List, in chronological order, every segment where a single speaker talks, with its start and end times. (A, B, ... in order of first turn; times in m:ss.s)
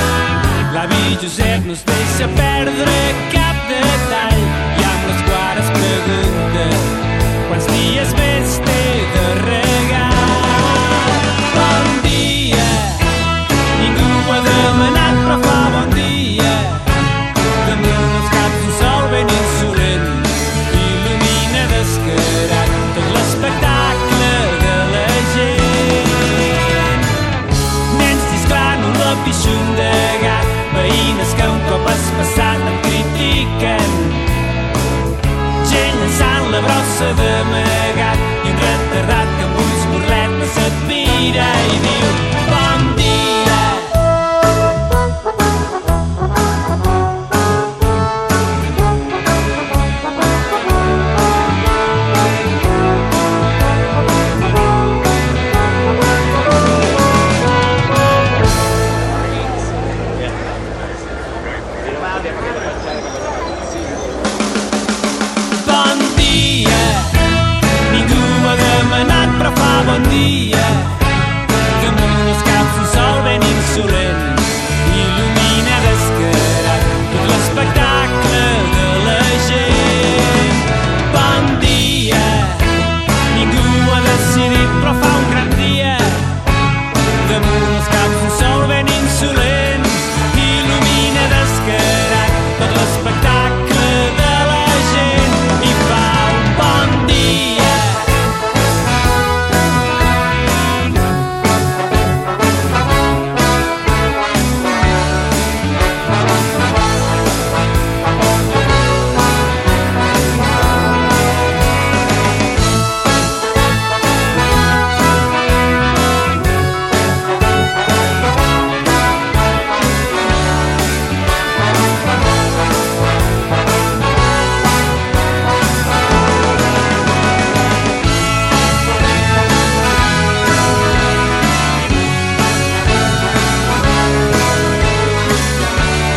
0:00.7-0:07.0 A
0:07.5-0:13.1 A
0:13.8-0:16.9 A
0:17.6-0:27.1 A
0:27.9-0:34.3 A
0:35.6-0:44.0 A
1:05.6-1:11.0 A
1:11.8-1:22.7 A
1:23.3-1:26.3 A
1:27.2-1:38.1 A